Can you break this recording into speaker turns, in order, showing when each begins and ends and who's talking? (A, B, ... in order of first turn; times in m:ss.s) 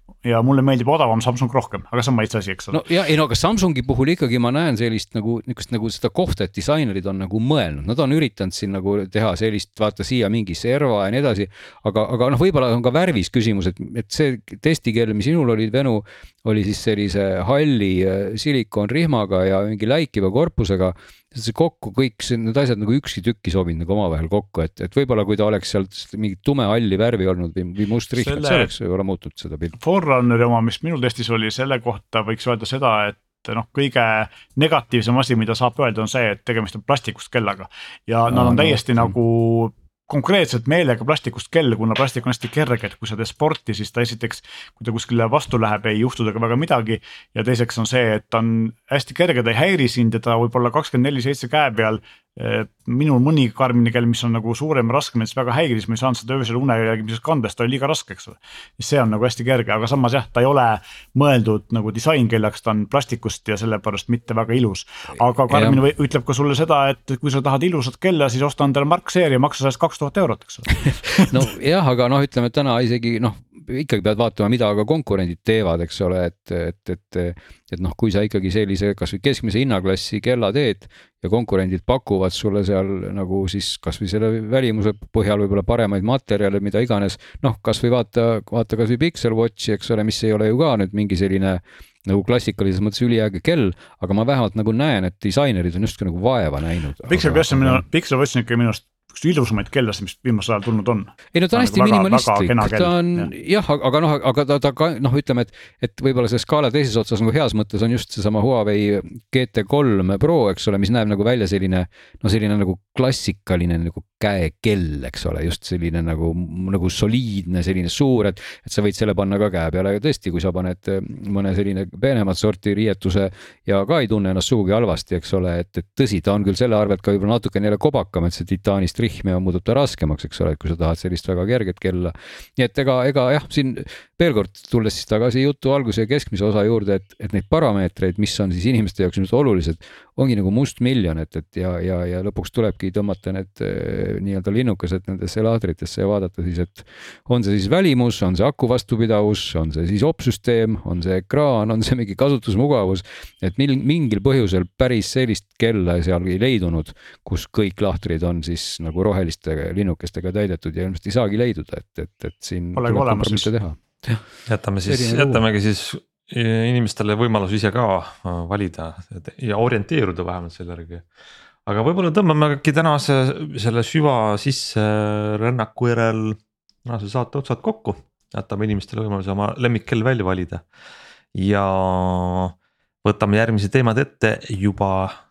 0:00.2-0:02.8 A
0:02.7-0:29.7 B
0:28.2-0:28.7 A
0:29.8-1:11.2 A
0:38.3-0:39.1 B
1:05.5-1:05.8 B
1:10.9-1:37.8 B
1:37.1-1:43.3 A
1:41.3-2:44.2 B
2:42.7-2:43.5 A
2:44.5-2:51.0 C
2:44.8-2:45.4 B
2:51.6-3:00.6 C
3:01.3-3:05.2 C